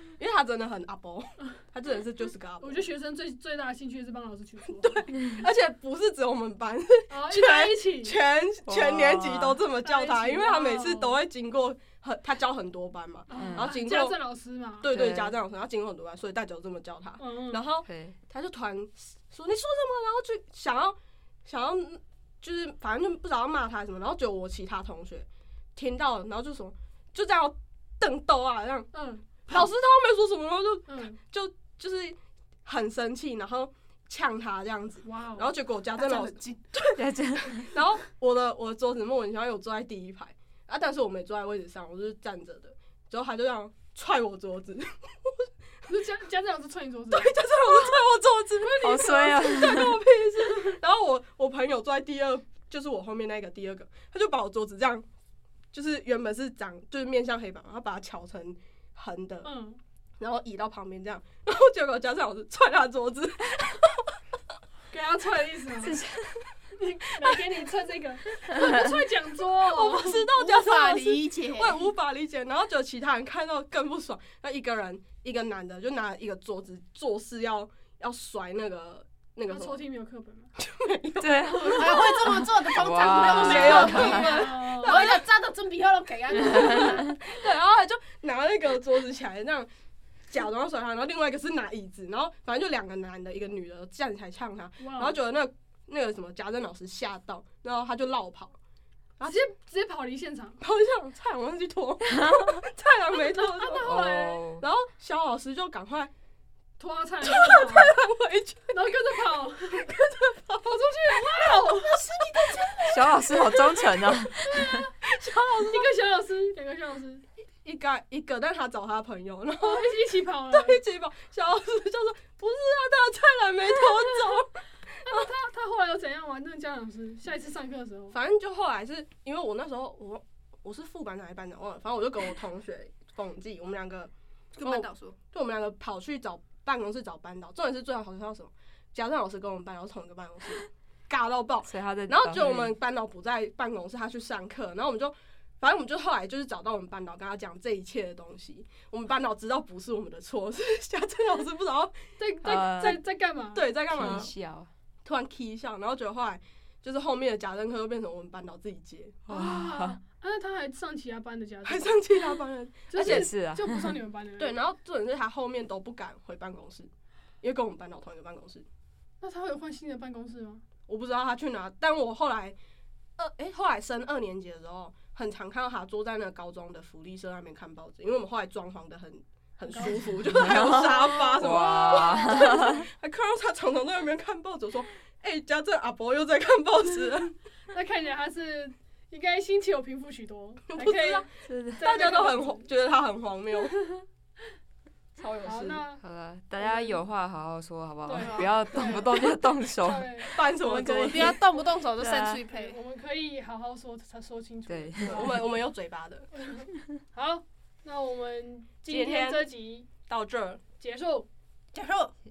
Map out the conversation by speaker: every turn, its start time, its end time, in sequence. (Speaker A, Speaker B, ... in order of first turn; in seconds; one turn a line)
Speaker A: 0.2-2.8
Speaker B: 2.6-4.9
Speaker A: 4.7-14.2
Speaker B: 7.1-8.2
Speaker C: 8.7-9.6
Speaker B: 9.8-11.2
Speaker B: 13.3-14.9
Speaker C: 13.3-13.8
Speaker A: 14.8-46.0
Speaker C: 14.9-15.4
Speaker B: 17.2-17.6
Speaker C: 17.8-18.1
Speaker B: 28.9-29.7
Speaker B: 30.9-31.2
Speaker B: 35.0-35.5
Speaker D: 35.9-36.6
Speaker C: 37.0-37.8
Speaker B: 45.9-47.8
Speaker A: 47.1-55.0
Speaker B: 48.6-49.7
Speaker C: 48.8-50.0
Speaker A: 55.7-59.5
Speaker B: 59.4-59.8
Speaker A: 60.2-64.1
Speaker B: 64.9-66.0
Speaker C: 65.8-66.4
Speaker B: 66.8-70.2
Speaker C: 68.6-68.9
Speaker A: 69.6-79.8
Speaker D: 70.3-71.9
Speaker B: 79.5-80.5
Speaker A: 80.6-85.2
Speaker C: 81.2-84.5
Speaker D: 81.6-87.2
Speaker B: 83.4-85.0
Speaker C: 86.5-87.1
Speaker A: 86.5-89.7
Speaker A: 90.3-98.5
Speaker B: 94.8-95.2
Speaker A: 99.2-99.5
Speaker B: 99.2-100.6
Speaker A: 100.6-104.0
Speaker C: 102.2-102.6
Speaker B: 103.3-104.4
Speaker C: 103.8-104.6
Speaker A: 104.6-106.1
Speaker B: 106.8-107.9
Speaker A: 107.2-113.8
Speaker B: 108.7-109.9
Speaker B: 110.6-112.1
Speaker D: 112.4-112.8
Speaker C: 112.9-114.8
Speaker B: 114.4-114.9
Speaker A: 115.0-115.9
Speaker B: 115.7-117.2
Speaker A: 117.6-125.3
Speaker B: 119.6-120.8
Speaker B: 124.0-124.4
Speaker B: 125.0-128.2
Speaker A: 128.1-134.1
Speaker D: 134.6-135.1
Speaker A: 134.6-152.0
Speaker C: 141.7-142.8
Speaker B: 152.2-154.2
Speaker C: 152.4-153.0
Speaker A: 153.5-154.3
Speaker C: 153.9-154.7
Speaker A: 155.1-159.3
Speaker C: 159.3-160.0
Speaker B: 159.3-161.9
Speaker A: 161.6-163.3
Speaker B: 162.9-164.6
Speaker C: 163.0-163.9
Speaker A: 164.4-166.9
Speaker A: 167.4-168.6
Speaker B: 169.2-170.6
Speaker A: 170.9-172.6
Speaker A: 173.2-187.3
Speaker C: 180.3-182.8
Speaker B: 180.6-182.7
Speaker B: 187.7-192.7
Speaker A: 190.7-193.8
Speaker C: 191.5-191.8
Speaker A: 195.2-195.8
Speaker B: 195.4-196.0
Speaker C: 196.0-200.1
Speaker B: 196.6-197.0
Speaker B: 198.1-200.4
Speaker D: 198.2-199.0
Speaker A: 200.2-201.4
Speaker D: 200.5-202.8
Speaker C: 202.0-202.4
Speaker B: 202.4-205.6
Speaker C: 204.7-205.2
Speaker A: 205.0-206.3
Speaker B: 206.4-209.9
Speaker A: 208.9-209.4
Speaker A: 210.1-210.6
Speaker B: 210.8-211.3
Speaker D: 211.7-212.1